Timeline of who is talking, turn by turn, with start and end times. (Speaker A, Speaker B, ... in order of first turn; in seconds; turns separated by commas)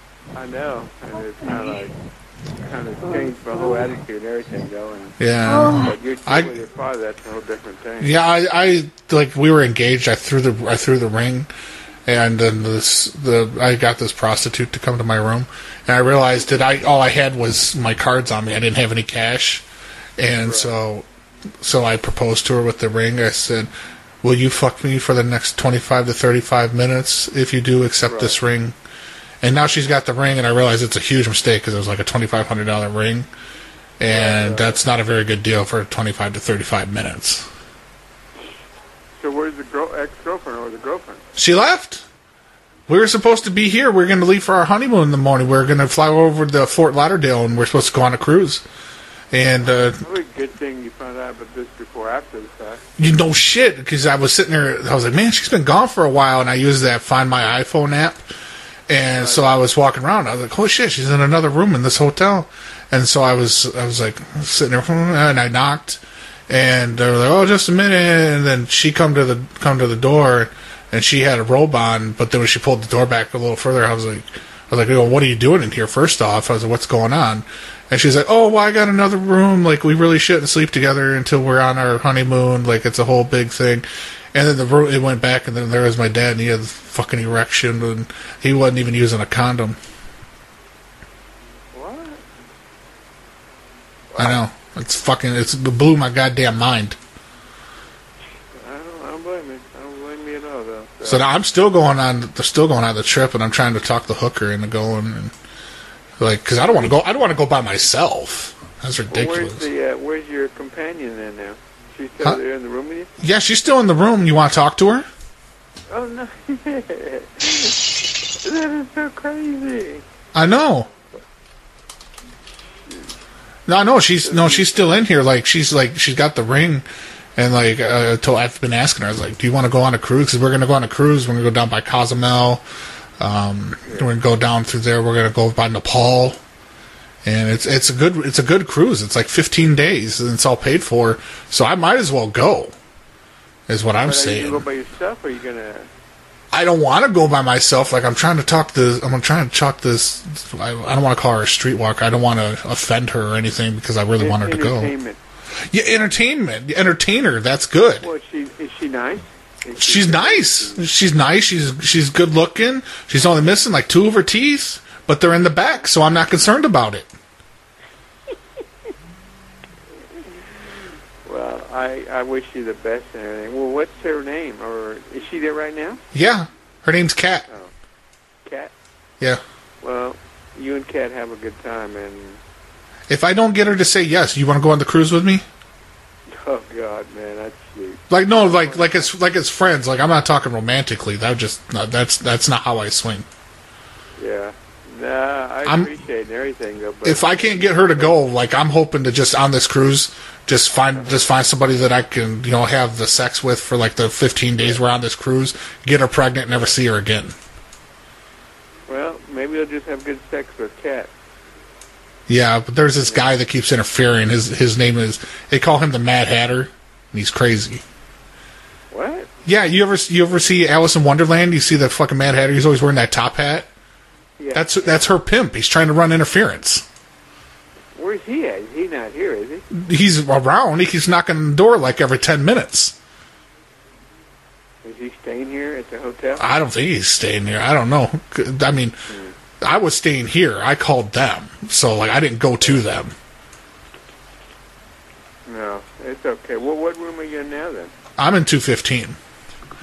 Speaker A: 0.3-1.9, Speaker A: 2.6-5.2, Speaker B: 5.2-6.5, Speaker A: 5.8-8.1, Speaker B: 8.0-11.5, Speaker B: 12.1-19.6, Speaker B: 20.2-21.0, Speaker A: 20.4-20.7, Speaker B: 21.6-23.7, Speaker B: 24.2-28.7, Speaker A: 28.0-28.4, Speaker B: 29.4-33.3, Speaker B: 34.0-37.5, Speaker A: 34.0-34.8, Speaker A: 39.2-41.2, Speaker B: 41.4-42.0, Speaker B: 42.9-48.6, Speaker B: 49.3-50.0, Speaker A: 49.7-52.8, Speaker B: 53.0-58.2, Speaker B: 58.9-89.8, Speaker A: 59.1-59.6, Speaker A: 91.7-92.2, Speaker A: 94.1-94.4, Speaker B: 94.2-97.0, Speaker A: 98.5-101.2, Speaker B: 101.0-105.3, Speaker B: 106.2-109.7, Speaker A: 109.1-113.1, Speaker B: 113.2-115.0, Speaker A: 115.9-120.0, Speaker B: 120.3-120.9, Speaker B: 123.7-126.8, Speaker A: 124.2-124.9, Speaker B: 127.4-132.6, Speaker B: 133.2-136.4, Speaker B: 137.2-142.7, Speaker B: 143.7-144.6, Speaker A: 144.0-145.9, Speaker B: 146.5-154.9, Speaker A: 154.2-155.2, Speaker B: 155.7-158.1, Speaker A: 158.0-160.9, Speaker B: 159.8-167.1, Speaker A: 171.2-176.0, Speaker B: 176.1-177.5, Speaker A: 177.5-177.7, Speaker A: 178.4-178.7, Speaker A: 179.8-182.4, Speaker B: 183.1-185.4, Speaker A: 186.3-189.1, Speaker B: 188.1-193.2, Speaker A: 194.2-198.2, Speaker B: 195.6-195.9, Speaker B: 197.0-207.3, Speaker A: 200.9-201.2, Speaker A: 208.9-211.1, Speaker B: 212.3-217.8, Speaker A: 213.0-213.3, Speaker A: 218.9-219.3, Speaker B: 219.4-223.7, Speaker A: 224.4-225.1, Speaker B: 224.5-226.8, Speaker A: 227.9-229.7, Speaker B: 229.7-232.9, Speaker A: 234.8-236.4, Speaker B: 236.4-238.9, Speaker A: 239.1-239.3, Speaker B: 239.6-243.1, Speaker A: 245.4-247.9, Speaker B: 248.2-249.2